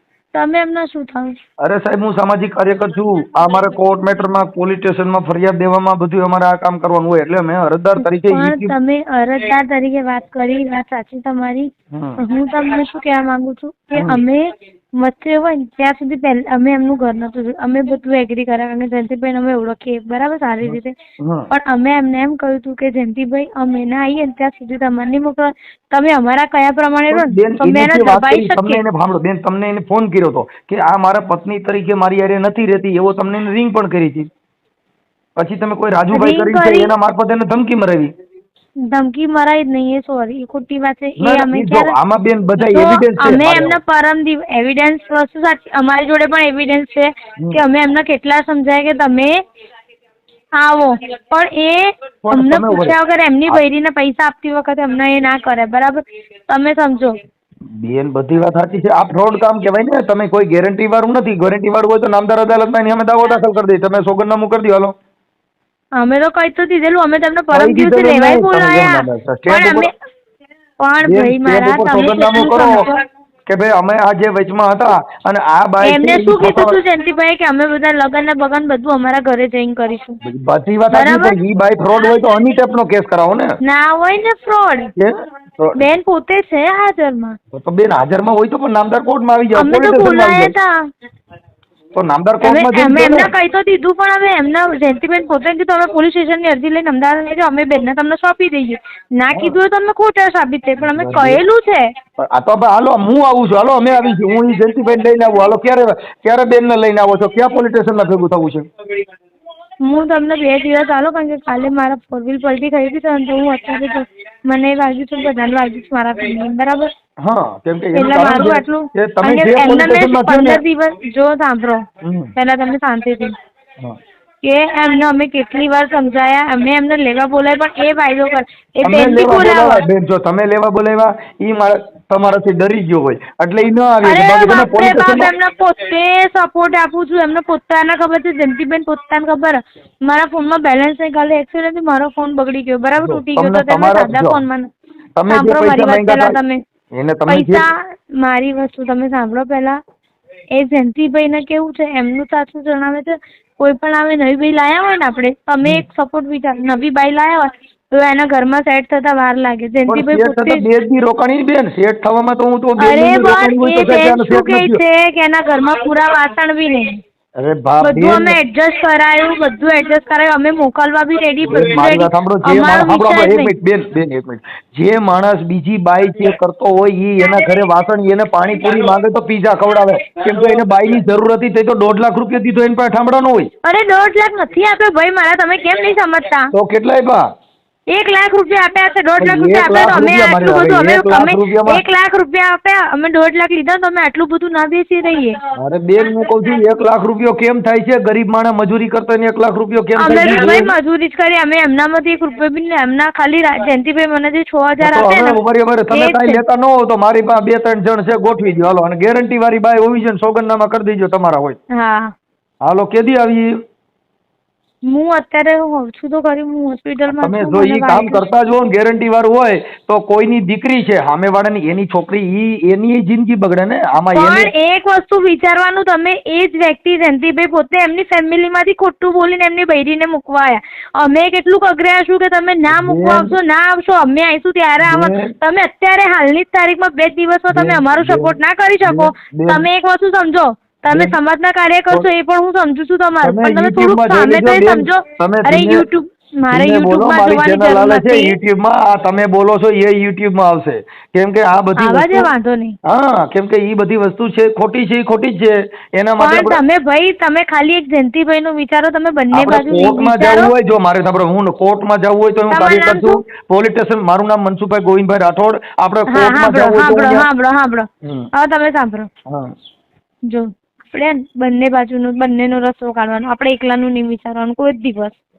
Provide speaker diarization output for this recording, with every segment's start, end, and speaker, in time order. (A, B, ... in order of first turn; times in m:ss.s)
0:00.3-0:01.4 A
0:01.6-0:08.7 B
0:08.0-0:20.9 A
0:11.9-0:12.2 B
0:14.0-0:14.2 B
0:20.6-0:21.5 B
0:21.5-0:28.8 A
0:27.1-0:34.3 B
0:35.4-0:38.1 B
0:36.1-0:36.9 A
0:38.8-0:41.9 A
0:41.2-0:43.8 B
0:42.6-0:49.4 A
0:50.6-0:57.2 A
0:52.2-0:53.0 B
0:57.7-1:04.9 B
1:06.0-1:09.9 A
1:07.5-1:09.9 B
1:10.8-1:13.0 A
1:11.0-1:12.9 B
1:13.5-1:16.8 B
1:15.8-1:20.2 A
1:20.2-1:23.6 B
1:20.9-1:21.4 A
1:23.6-1:24.9 A
1:25.0-1:25.9 B
1:25.8-1:27.4 A
1:27.5-1:30.5 B
1:29.5-1:30.7 A
1:31.9-1:33.3 B
1:32.4-1:41.9 A
1:39.3-1:39.6 B
1:40.9-1:41.4 B
1:42.2-1:48.7 B
1:49.8-1:56.9 A
1:57.2-2:00.6 B
1:57.9-2:01.8 A
2:02.0-2:02.3 B
2:02.4-2:03.3 A
2:04.4-2:09.8 A
2:08.8-2:15.3 B
2:14.0-2:24.7 A
2:23.0-2:24.4 B
2:25.2-2:26.4 B
2:25.3-2:26.6 A
2:26.9-2:27.7 B
2:27.3-2:29.8 A
2:30.5-2:40.6 A
2:39.9-2:44.8 B
2:42.8-2:47.0 A
2:47.4-2:48.4 B
2:47.8-2:53.5 A
2:51.4-3:03.5 B
3:03.6-3:06.5 A
3:06.5-3:07.3 B
3:07.9-3:15.4 A
3:09.2-3:11.8 B
3:15.6-3:20.7 B
3:20.0-3:25.4 A
3:24.8-3:31.6 B
3:25.9-3:26.4 A
3:31.7-3:32.1 A
3:32.6-3:33.5 B
3:34.8-3:38.2 A
3:37.1-3:44.5 B
3:44.1-4:08.4 A
3:52.7-3:53.3 B
3:54.8-3:55.3 B
3:57.5-3:59.6 B
4:00.9-4:01.2 B
4:03.2-4:05.8 B
4:06.5-4:12.3 B
4:11.8-4:12.8 A
4:12.8-4:16.6 B
4:16.2-4:20.5 A
4:19.3-4:27.3 B
4:22.5-4:23.2 A
4:26.1-4:29.1 A
4:28.0-4:28.3 B
4:29.3-4:29.5 B
4:30.3-4:35.2 A